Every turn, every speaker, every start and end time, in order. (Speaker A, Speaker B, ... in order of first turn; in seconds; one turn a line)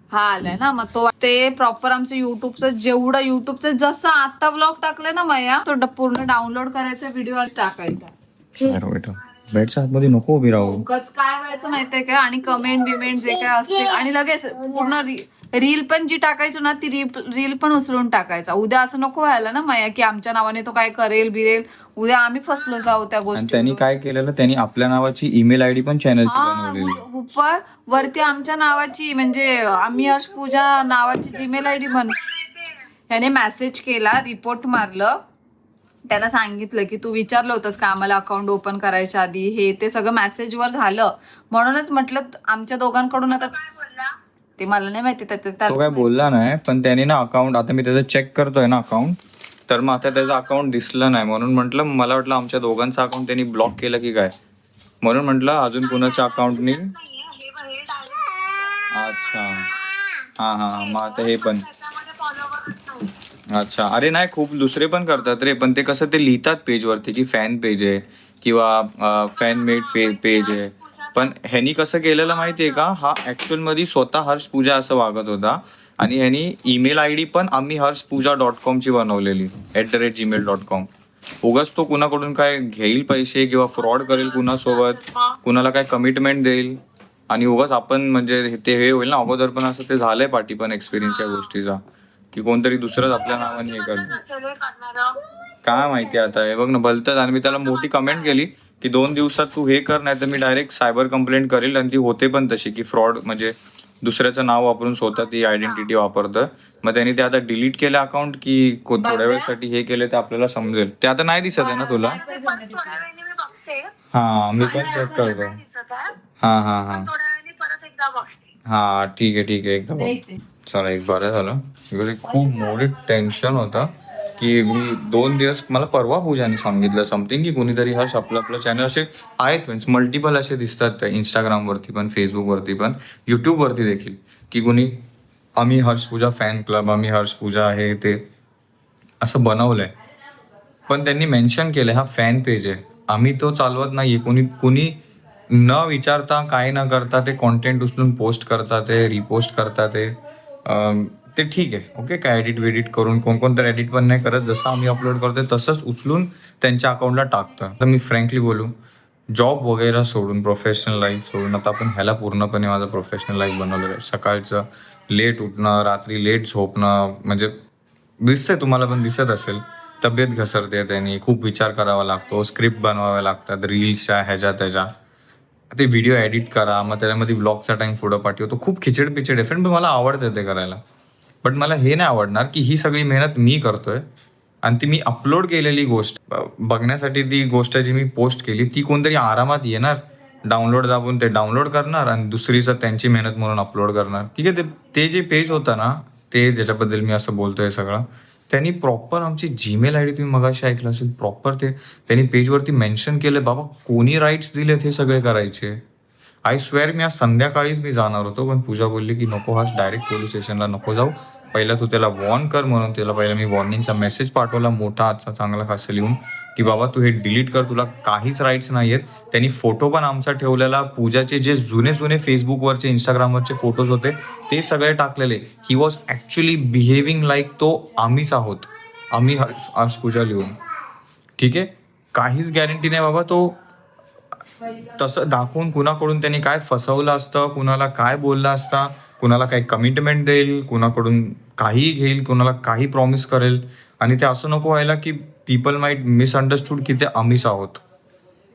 Speaker A: 0.1-8.1
Speaker B: 8.6-10.8
Speaker A: 10.5-23.9
Speaker B: 23.3-27.0
Speaker A: 26.3-32.2
Speaker C: 31.5-32.8
Speaker A: 33.1-35.1
Speaker A: 36.1-43.6
Speaker C: 43.4-44.2
Speaker A: 44.6-46.1
Speaker B: 45.7-54.3
Speaker B: 55.0-56.9
Speaker C: 55.7-59.9
Speaker B: 58.9-59.7
Speaker B: 60.4-61.7
Speaker C: 60.7-63.1
Speaker B: 63.5-80.9
Speaker C: 69.4-71.3
Speaker C: 72.4-72.8
Speaker B: 81.4-86.8
Speaker C: 83.8-85.4
Speaker B: 87.3-91.8
Speaker B: 92.3-94.2
Speaker C: 93.2-95.2
Speaker B: 95.6-112.2
Speaker C: 97.5-98.4
Speaker C: 105.2-105.9
Speaker A: 109.0-109.5
Speaker A: 111.6-113.0
Speaker C: 112.0-113.9
Speaker B: 114.1-115.6
Speaker A: 114.6-115.2
Speaker C: 114.7-116.2
Speaker B: 116.4-117.1
Speaker C: 116.9-118.5
Speaker B: 118.7-135.0
Speaker A: 120.0-120.4
Speaker B: 135.6-138.3
Speaker B: 139.2-139.9
Speaker B: 140.9-158.8
Speaker B: 159.3-167.6
Speaker B: 168.2-174.9
Speaker B: 175.7-180.8
Speaker B: 181.4-184.1
Speaker B: 184.6-205.8
Speaker B: 206.4-230.6
Speaker B: 231.4-233.6
Speaker B: 235.0-247.8